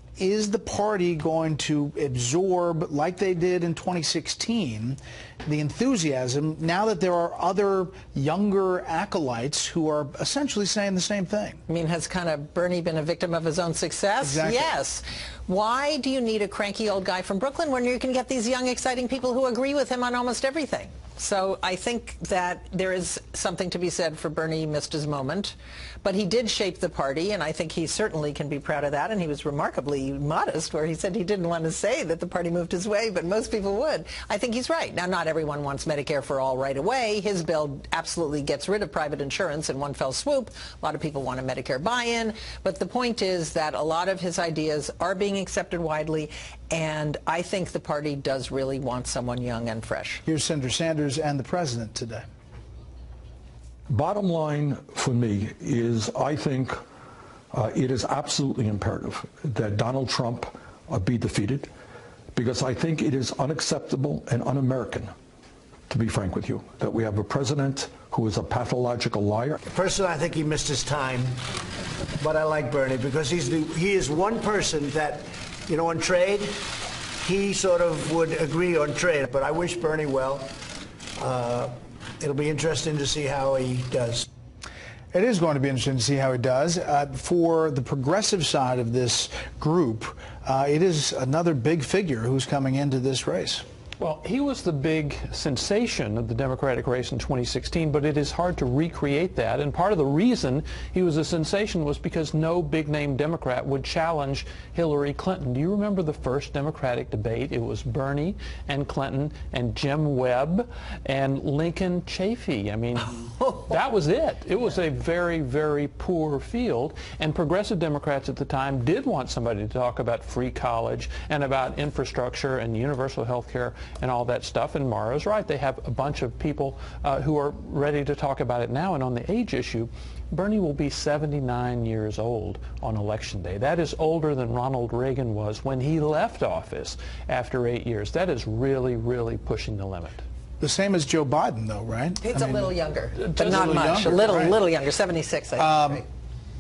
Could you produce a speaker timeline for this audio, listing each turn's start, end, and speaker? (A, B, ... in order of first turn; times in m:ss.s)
0:00.2-0:11.6 A
0:11.7-0:50.2 B
0:14.2-0:14.7 A
0:50.2-0:52.2 A
0:53.9-0:56.8 C
0:57.5-1:01.7 C
1:02.3-1:05.1 C
1:05.9-1:09.6 C
1:09.7-1:11.4 D
1:12.2-1:16.7 D
1:17.2-1:20.5 D
1:21.2-1:24.2 D
1:25.1-1:33.6 A
1:34.0-2:20.2 E
2:20.6-2:22.7 A
2:22.2-2:26.0 B
2:23.2-2:24.1 E
2:23.4-2:24.6 A
2:25.6-2:26.0 A